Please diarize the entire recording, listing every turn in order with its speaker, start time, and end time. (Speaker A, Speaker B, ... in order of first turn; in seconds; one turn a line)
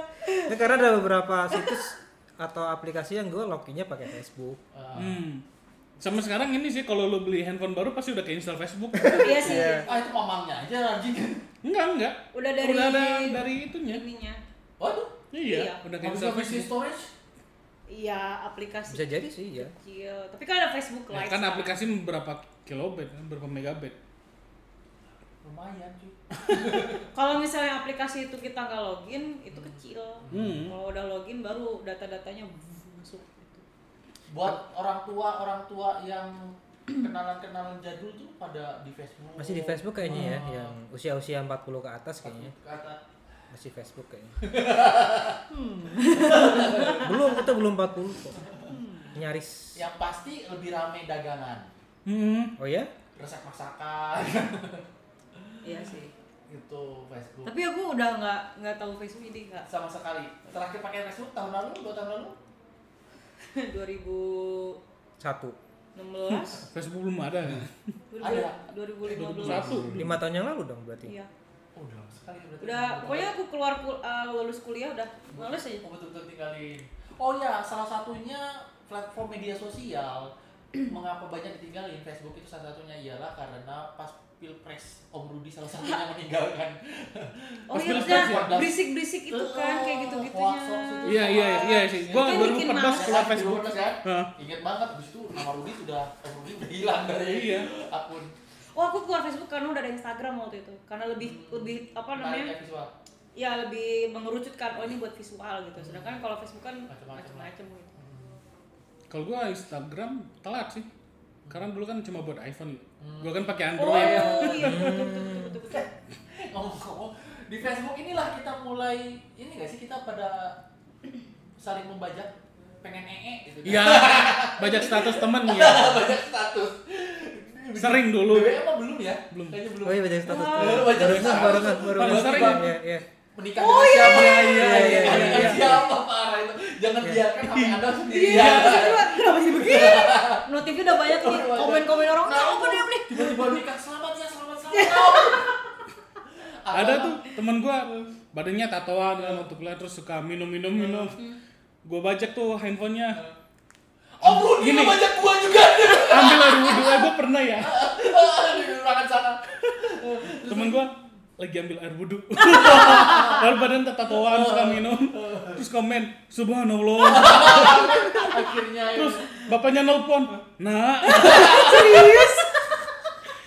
Speaker A: 0.1-0.6
Speaker B: 0.5-4.6
Speaker C: 4.7-5.2
Speaker D: 4.9-5.4
Speaker D: 6.0-9.6
Speaker A: 9.1-10.0
Speaker B: 9.2-9.9
Speaker C: 9.4-11.4
Speaker D: 11.6-14.0
Speaker A: 12.3-14.4
Speaker C: 14.8-15.1
Speaker D: 15.3-16.7
Speaker A: 15.4-15.8
Speaker C: 16.0-17.1
Speaker A: 17.9-21.8
Speaker B: 18.9-19.7
Speaker D: 21.1-23.9
Speaker C: 25.4-27.1
Speaker A: 27.1-33.6
Speaker C: 29.5-30.7
Speaker D: 30.3-30.7
Speaker C: 34.3-40.8
Speaker B: 39.4-42.5
Speaker C: 42.2-43.0
Speaker B: 43.5-44.4
Speaker C: 44.4-45.4
Speaker A: 45.5-47.2
Speaker C: 46.1-47.3
Speaker B: 47.0-48.4
Speaker A: 48.6-49.2
Speaker B: 49.1-49.8
Speaker C: 49.8-51.7
Speaker D: 52.0-52.5
Speaker B: 52.6-52.9
Speaker C: 53.1-54.8
Speaker A: 55.6-56.1
Speaker C: 56.5-57.5
Speaker A: 57.4-59.7
Speaker C: 59.7-62.4
Speaker A: 63.5-64.8
Speaker B: 65.2-65.6
Speaker A: 65.9-66.7
Speaker D: 66.3-67.8
Speaker A: 68.1-69.8
Speaker C: 68.2-70.1
Speaker D: 69.1-70.1
Speaker B: 69.9-71.1
Speaker A: 71.0-71.3
Speaker C: 71.7-73.3
Speaker A: 72.6-75.8
Speaker C: 75.3-98.3
Speaker A: 87.7-93.4
Speaker D: 87.7-88.6
Speaker D: 91.0-94.3
Speaker D: 97.3-97.7
Speaker A: 98.7-102.5
Speaker C: 101.2-102.9
Speaker A: 103.3-107.9
Speaker C: 105.8-106.1
Speaker C: 106.9-108.3
Speaker D: 109.1-110.9
Speaker D: 111.5-114.9
Speaker C: 113.0-114.9
Speaker A: 113.8-115.9
Speaker B: 114.6-115.6
Speaker C: 115.7-120.6
Speaker C: 121.6-132.7
Speaker D: 123.6-126.1
Speaker D: 127.8-128.6
Speaker D: 129.3-129.6
Speaker B: 129.8-133.0
Speaker A: 130.2-130.9
Speaker D: 130.9-132.7
Speaker C: 133.3-145.6
Speaker A: 133.5-135.8
Speaker D: 134.0-135.9
Speaker B: 134.5-135.8
Speaker B: 137.0-137.2
Speaker D: 137.5-138.8
Speaker A: 138.1-143.6
Speaker A: 144.7-145.6
Speaker C: 146.3-147.3
Speaker D: 146.7-151.2
Speaker C: 147.8-148.1
Speaker C: 149.1-149.5
Speaker C: 150.8-151.1
Speaker A: 151.1-151.4
Speaker D: 151.8-153.2
Speaker C: 154.2-160.9
Speaker D: 154.2-155.2
Speaker D: 155.8-157.7
Speaker D: 160.4-168.0
Speaker A: 162.4-163.4
Speaker C: 162.4-163.5
Speaker C: 164.1-165.6
Speaker C: 167.0-169.4
Speaker A: 167.6-168.5
Speaker D: 168.9-172.2
Speaker A: 171.0-172.8
Speaker C: 171.1-172.2